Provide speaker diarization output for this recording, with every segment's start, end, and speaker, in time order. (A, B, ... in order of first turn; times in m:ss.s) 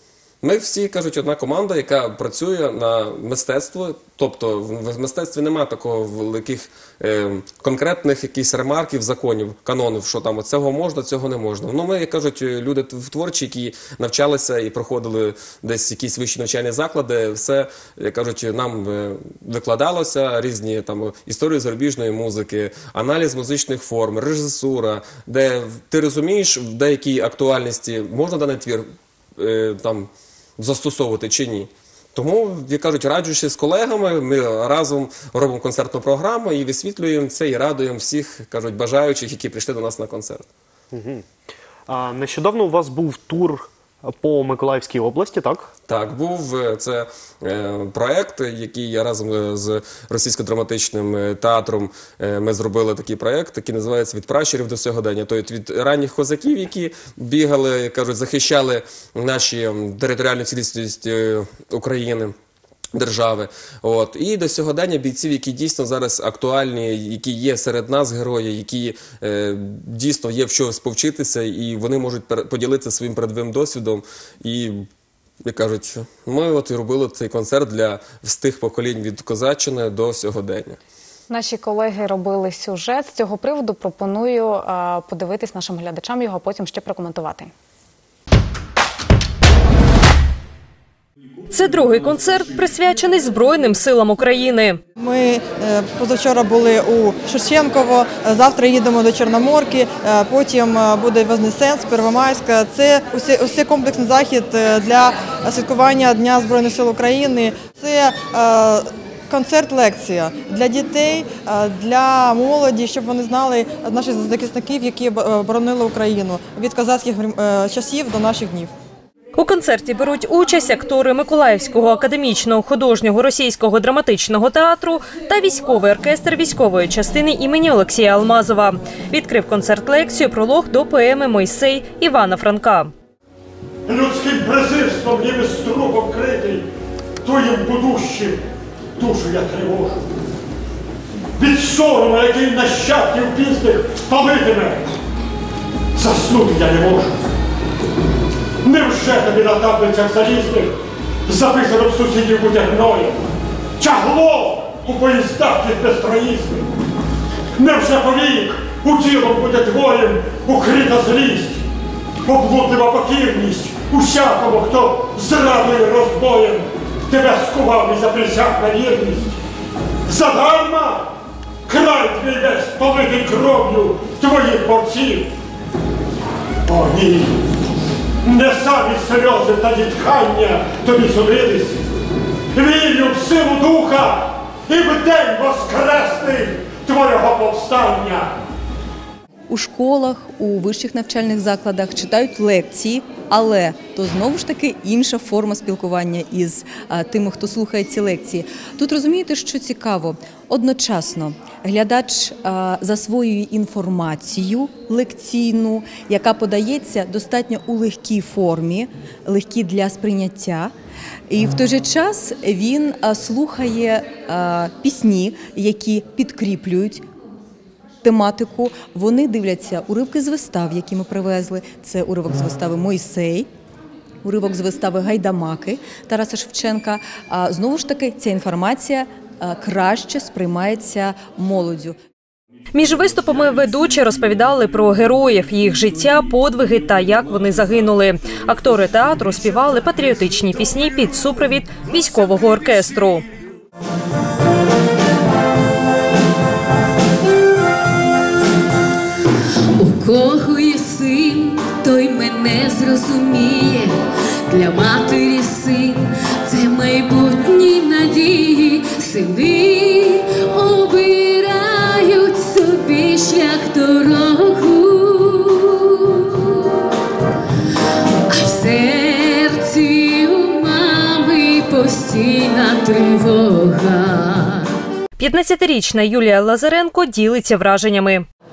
0:00.4-0:40.5 A
0:40.9-0:41.3 B
0:41.9-0:45.7 B
0:45.9-1:02.4 A
1:02.9-1:14.9 A
1:15.4-1:20.8 A
1:21.3-1:27.5 C
1:31.5-1:34.8 D
1:35.0-1:58.7 E
1:59.4-2:12.9 D
2:13.9-2:16.7 F
2:17.2-2:18.4 F
2:19.0-2:20.0 F
2:21.4-2:24.9 F
2:26.0-2:27.2 F
2:28.6-2:30.7 F
2:31.3-2:33.2 F
2:33.8-2:36.7 F
2:37.6-2:41.7 F
2:42.2-2:49.4 F
2:50.1-2:51.1 F
2:51.7-2:55.3 F
2:56.7-2:57.4 F
2:58.2-3:01.8 F
3:02.5-3:08.3 F
3:09.5-3:30.7 G
3:31.3-3:37.0 G
3:38.0-3:43.5 G
3:44.2-3:52.0 G
3:52.7-4:03.2 D
4:09.8-4:14.0 H
4:14.5-4:26.7 H
4:28.3-4:34.7 H
4:35.2-4:38.3 D